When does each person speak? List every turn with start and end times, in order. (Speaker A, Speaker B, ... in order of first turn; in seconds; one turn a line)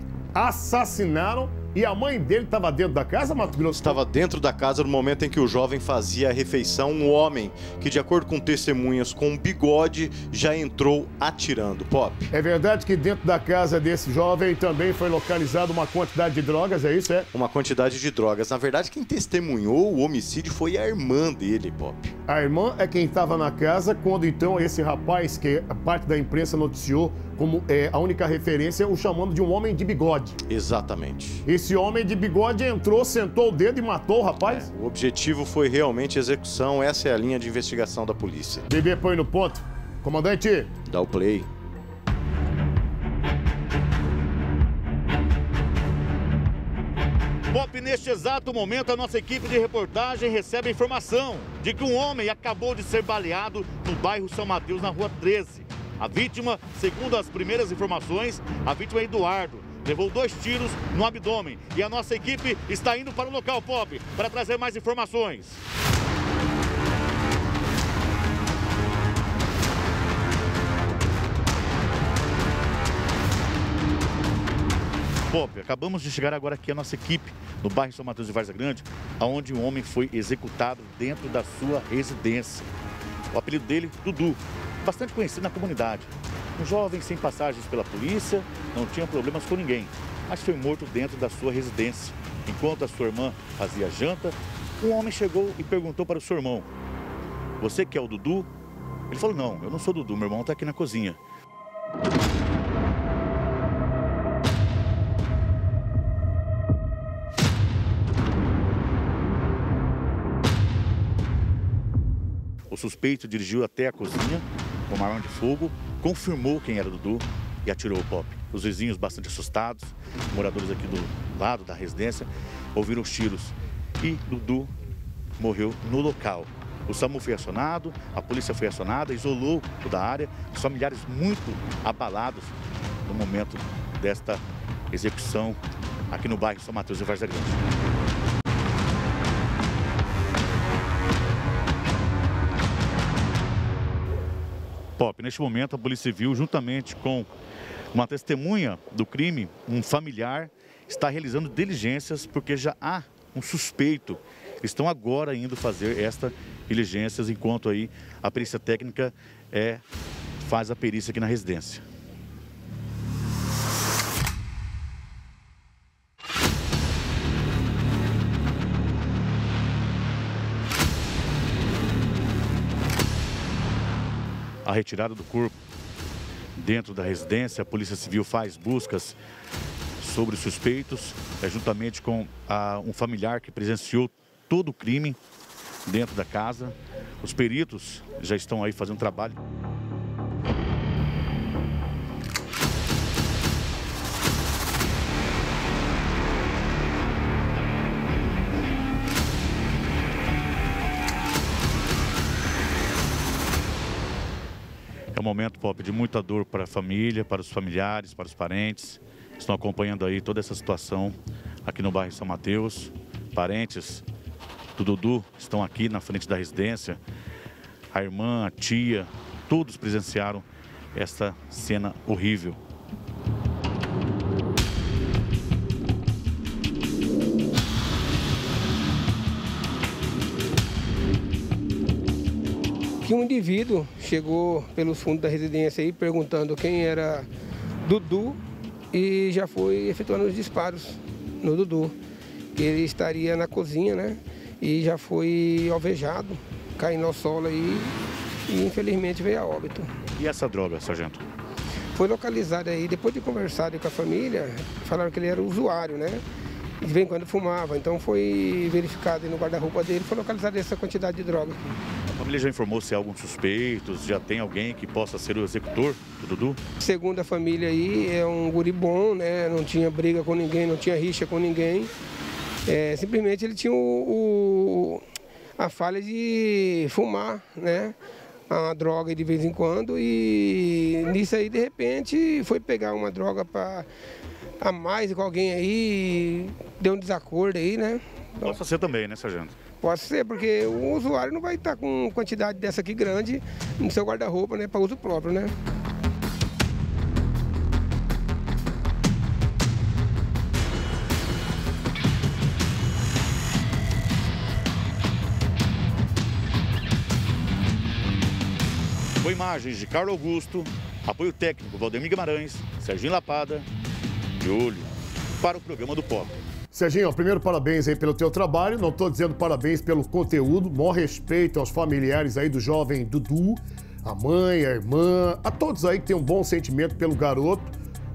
Speaker A: 0.3-4.0
Speaker B: 3.7-12.3
Speaker A: 12.3-17.3
Speaker B: 17.3-22.1
Speaker A: 22.3-30.4
Speaker B: 30.5-31.4
Speaker A: 31.4-34.7
Speaker B: 34.5-38.6
Speaker A: 38.7-40.7
Speaker B: 40.9-41.5
Speaker C: 47.5-65.6
Speaker C: 75.3-82.7
Speaker C: 83.3-96.7
Speaker C: 97.6-98.5
Speaker C: 99.1-101.2
Speaker C: 112.7-124.7
Speaker C: 125.4-135.6
Speaker C: 136.1-137.6
Speaker C: 145.0-147.3
Speaker C: 147.9-159.8
Speaker C: 160.4-161.8
Speaker C: 174.6-175.5
Speaker C: 176.6-179.2
Speaker C: 180.0-185.2
Speaker C: 185.8-189.3
Speaker C: 205.1-214.0
Speaker C: 214.8-217.0
Speaker C: 217.9-222.6
Speaker D: 233.0-237.3
Speaker D: 237.8-238.4
Speaker D: 238.9-241.9
Speaker D: 242.5-247.9
Speaker D: 248.5-249.9
Speaker C: 250.2-251.2
Speaker D: 251.9-256.2
Speaker D: 256.8-261.8
Speaker C: 262.1-266.6
Speaker D: 266.8-271.9
Speaker D: 272.6-275.0
Speaker D: 275.6-277.9
Speaker D: 278.5-283.9
Speaker D: 284.6-288.6
Speaker C: 288.4-289.5
Speaker D: 289.8-295.5
Speaker C: 309.2-313.7
Speaker C: 314.4-316.3
Speaker A: 316.7-327.7